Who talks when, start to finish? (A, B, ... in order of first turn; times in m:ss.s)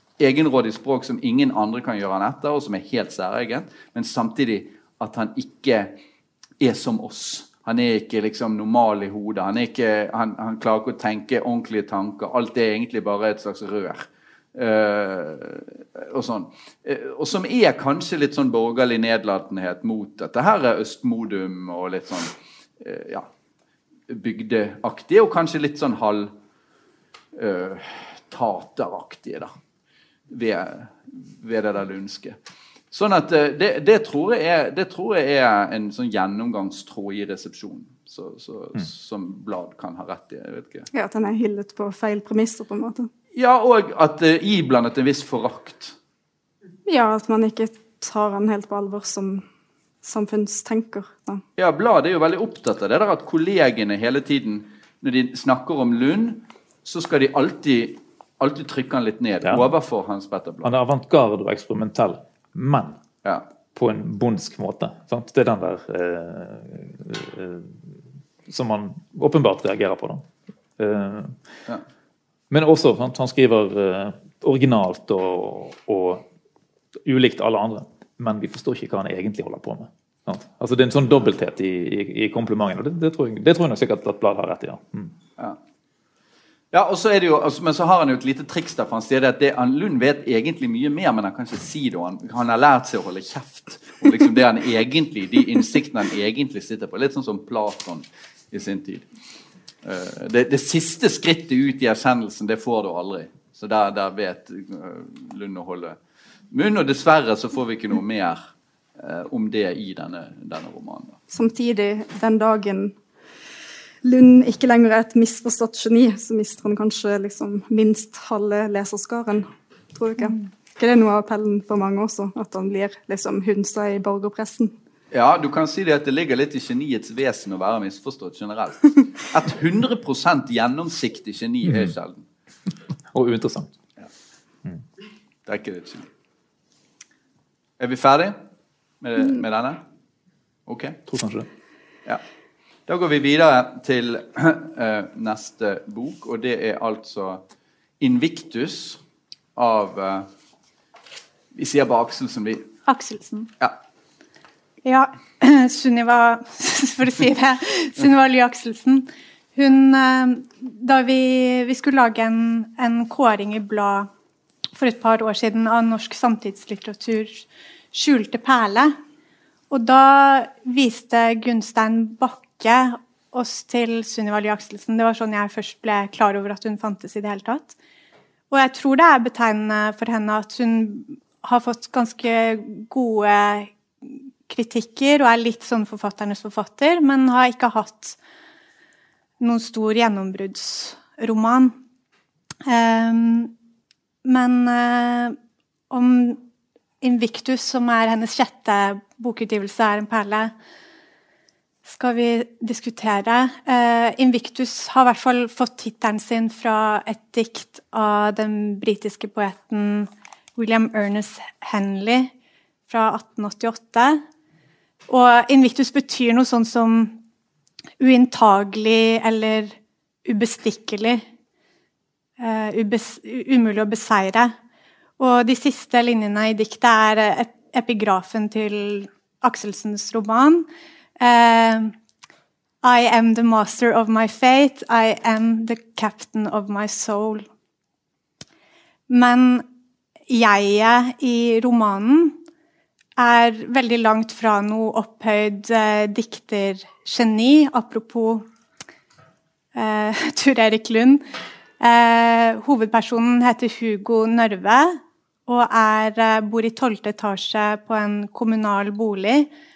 0:00.2-0:06.0 A
0:06.6-0:23.3 A
0:24.1-0:26.3 A
0:27.3-0:29.5 A
0:30.3-0:32.4 A
0:32.9-0:40.9 A
0:40.9-0:43.1 B
0:43.4-0:46.0 A
0:46.9-0:49.4 B
0:50.0-0:51.4 B
0:51.6-1:00.7 A
0:59.4-0:59.7 C
1:00.6-1:03.0 C
1:03.7-1:07.8 C
1:08.5-1:10.3 C
1:10.8-1:11.4 C
1:12.5-1:16.2 C
1:17.0-1:25.1 C
1:26.7-1:39.1 A
1:39.8-1:46.0 A
1:46.5-1:48.4 A
1:49.0-1:51.2 A
1:51.3-1:53.0 B
1:54.0-2:04.7 B
2:05.1-2:12.3 A
2:13.1-2:13.7 C
2:15.5-2:16.1 A
2:17.8-2:18.4 A
2:19.0-2:19.8 A
2:20.7-2:21.0 A
2:21.1-2:21.5 C
2:22.9-2:27.4 A
2:28.0-2:29.0 A
2:29.6-2:30.3 A
2:31.5-2:32.7 A
2:32.9-2:33.5 D
2:34.8-2:44.1 D
2:44.7-2:49.0 D
2:49.7-2:57.7 D
2:58.5-3:08.2 D
3:09.4-3:11.8 D
3:12.6-3:13.5 D
3:14.2-3:15.4 D
3:15.9-3:16.4 D
3:17.0-3:20.5 D
3:21.8-3:32.3 D
3:32.9-3:34.2 D
3:35.1-3:37.2 D
3:38.0-3:41.2 D
3:42.4-3:44.5 D
3:45.2-3:50.7 D
3:51.2-3:51.9 D
3:52.8-3:57.5 D
3:59.1-3:59.6 D
4:00.3-4:02.4 D
4:03.2-4:08.5 D
4:09.8-4:11.2 D
4:11.8-4:19.5 D